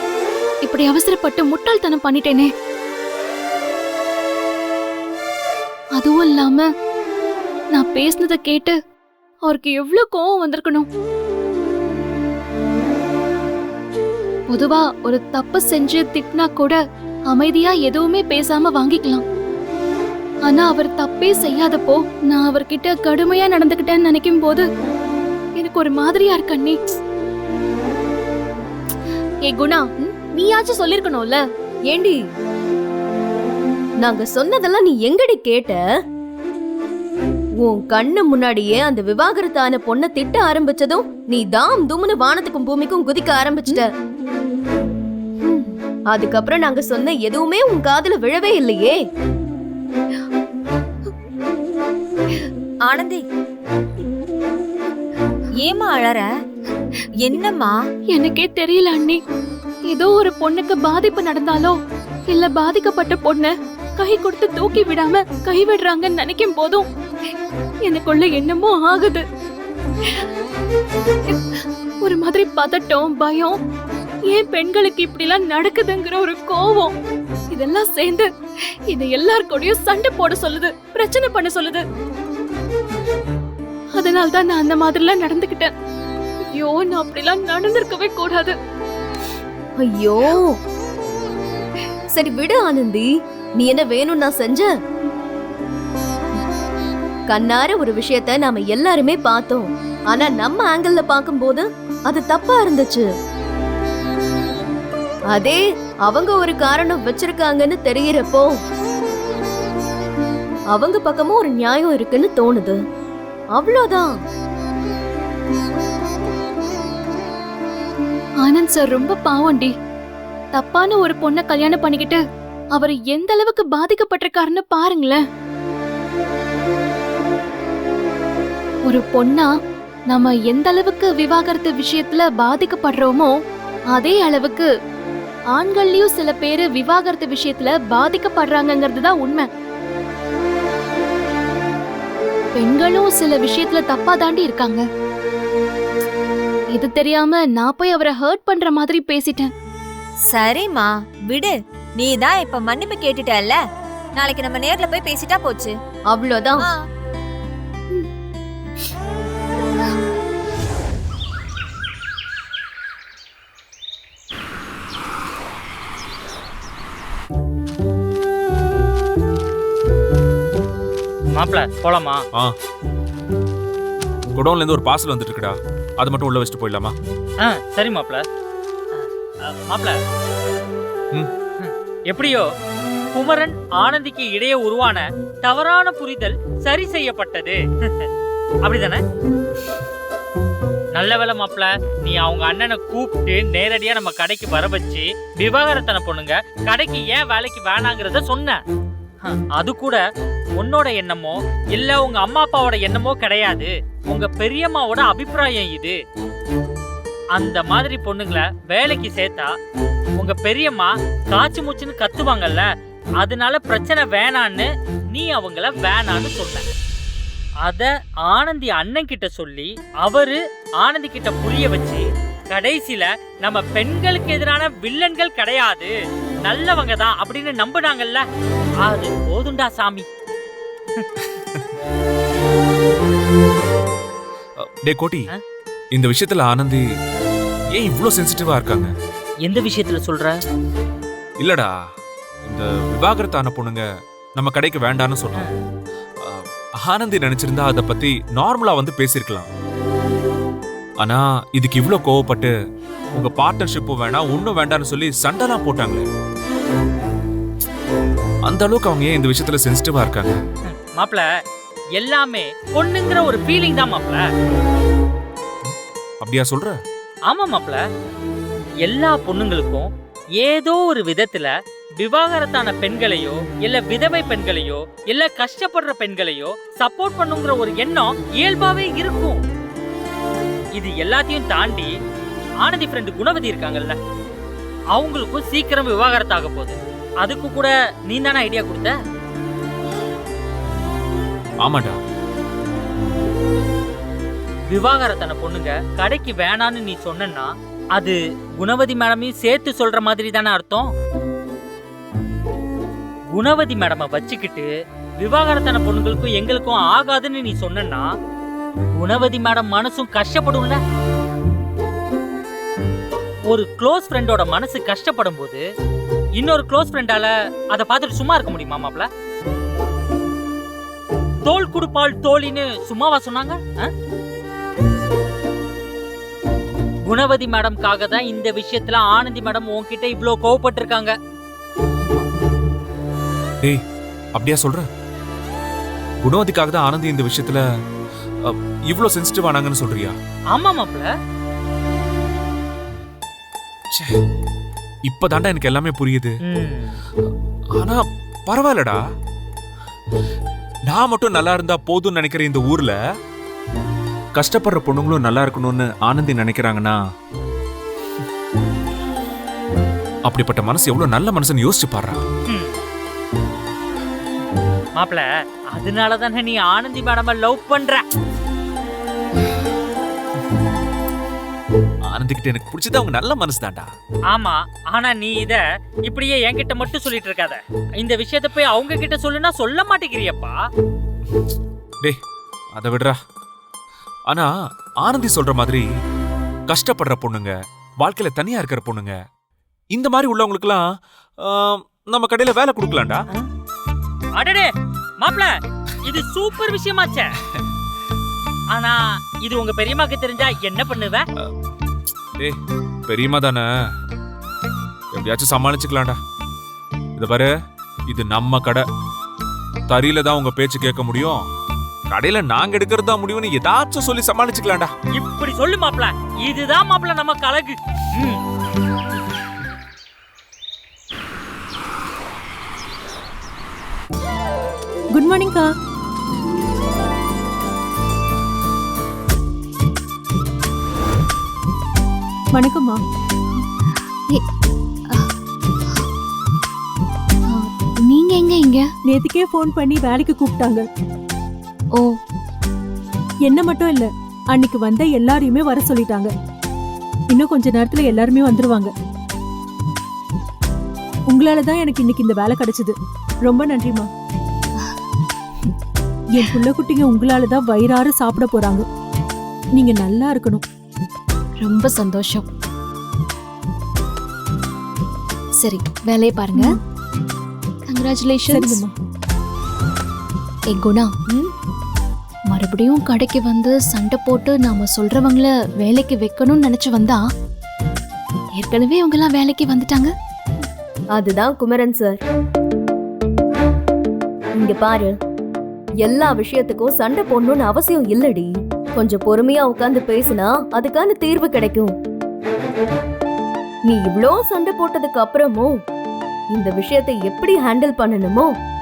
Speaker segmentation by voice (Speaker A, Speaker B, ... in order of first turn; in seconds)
Speaker A: 0.6-2.5, 6.0-6.7, 7.7-8.8, 9.5-10.9, 14.5-16.8, 17.3-19.2, 20.5-24.7, 25.6-26.8, 29.5-31.4, 58.1-59.2, 59.9-61.8, 62.3-66.8, 67.8-69.2, 72.0-73.6, 74.3-76.9, 77.5-78.3, 78.9-81.8, 84.0-85.7, 86.5-88.5, 118.4-119.7, 120.5-122.2, 122.8-125.2, 128.9-129.5, 130.1-133.3, 133.9-134.7, 135.5-139.5, 142.6-144.8, 146.7-149.5, 437.5-438.9, 461.6-462.5, 465.6-466.7, 467.9-468.8, 470.7-471.1, 472.5-477.2, 478.6-480.1
Speaker B: 31.9-32.2, 34.0-35.8, 37.6-43.9, 46.1-49.0, 89.8-90.6, 92.1-94.7, 97.3-103.1, 105.3-108.6, 110.7-112.8, 113.5-114.1, 156.1-156.7, 481.1-482.2, 484.6-485.1, 486.0-491.9, 493.9-495.8, 496.5-498.5
Speaker C: 52.9-53.2, 55.6-56.3, 57.2-57.8, 150.3-153.6, 154.2-155.7
Speaker D: 171.4-172.2, 177.4-178.2, 178.9-180.0, 181.6-182.5, 183.2-188.1, 188.7-189.0, 191.0-198.6, 199.2-200.0, 200.6-206.0, 207.4-209.5, 210.2-212.7, 213.2-216.7, 217.7-225.9, 226.5-228.2, 228.8-230.1, 239.5-240.4, 260.7-261.3, 262.0-264.2, 267.3-267.8, 268.9-269.9, 270.4-279.4, 280.8-281.9, 282.6-284.0, 284.9-288.9, 294.7-300.9, 303.3-308.1, 309.0-310.8, 313.5-315.7, 316.4-319.1, 321.4-323.9, 327.1-331.1, 340.5-341.1, 346.5-347.0, 362.5-362.8, 365.0-368.1, 374.3-380.6, 394.4-394.7, 395.2-395.5, 396.0-397.4, 398.7-401.2, 415.2-418.4
Speaker E: 174.3-176.9, 234.6-235.2, 235.9-236.8, 237.7-238.9, 241.4-241.7, 242.5-243.8, 244.4-245.5, 246.2-249.5, 251.0-252.5, 253.2-256.1, 258.5-260.4, 265.6-266.8, 291.6-292.0, 293.0-293.2, 334.4-334.9, 336.2-337.6, 338.4-340.1, 345.1-346.4, 347.8-349.0, 350.9-353.0, 354.4-357.0, 360.3-362.2, 372.1-373.9, 382.8-383.2, 385.0-385.9, 386.7-389.2, 389.9-390.9, 391.4-393.2, 403.1-403.7, 405.1-406.2, 407.2-407.5, 408.1-408.9, 409.9-411.5, 412.1-414.9
Speaker F: 425.1-425.7, 432.5-433.0, 439.1-440.9, 443.4-446.3, 447.3-448.9, 451.3-454.1, 456.4-458.9, 459.8-460.6, 468.5-468.9